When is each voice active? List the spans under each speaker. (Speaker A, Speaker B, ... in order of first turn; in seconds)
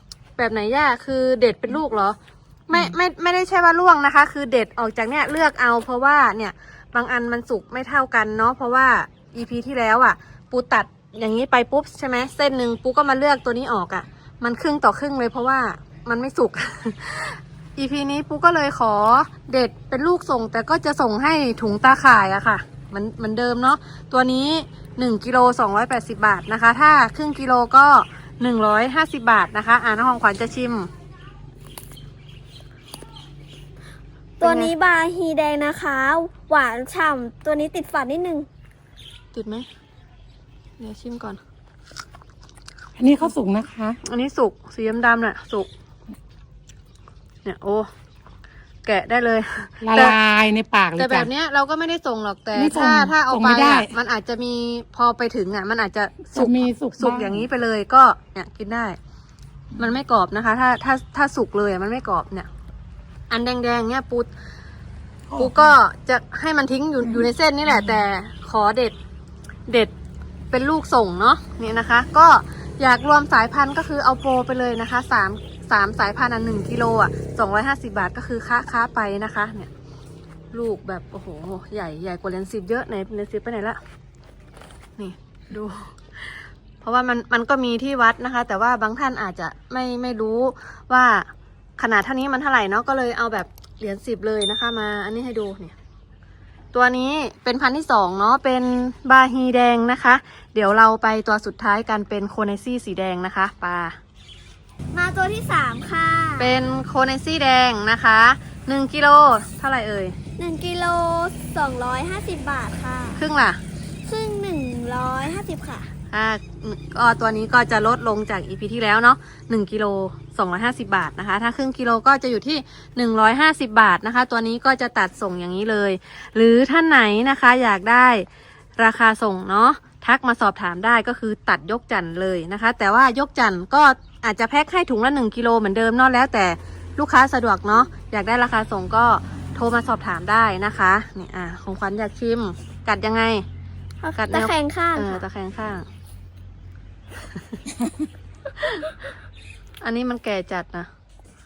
Speaker A: 0.4-2.2, 2.7-30.9, 34.4-34.7, 39.3-39.7, 40.8-41.4, 44.0-45.7, 47.4-47.9, 48.8-50.2, 51.0-59.0, 59.8-62.5, 63.3-64.3, 65.4-69.0, 70.5-79.7, 80.5-83.8, 85.0-91.3, 91.8-95.7, 96.7-104.0, 106.4-110.2, 113.2-113.6, 116.1-128.2, 128.8-143.4, 144.2-145.9, 149.8-150.9
Speaker B: 34.4-38.5, 104.9-106.5, 110.4-113.2, 114.0-115.9, 144.0-145.2
Speaker C: 43.0-44.0, 49.8-51.3, 52.5-53.9, 56.3-57.5, 65.3-65.8, 67.0-67.9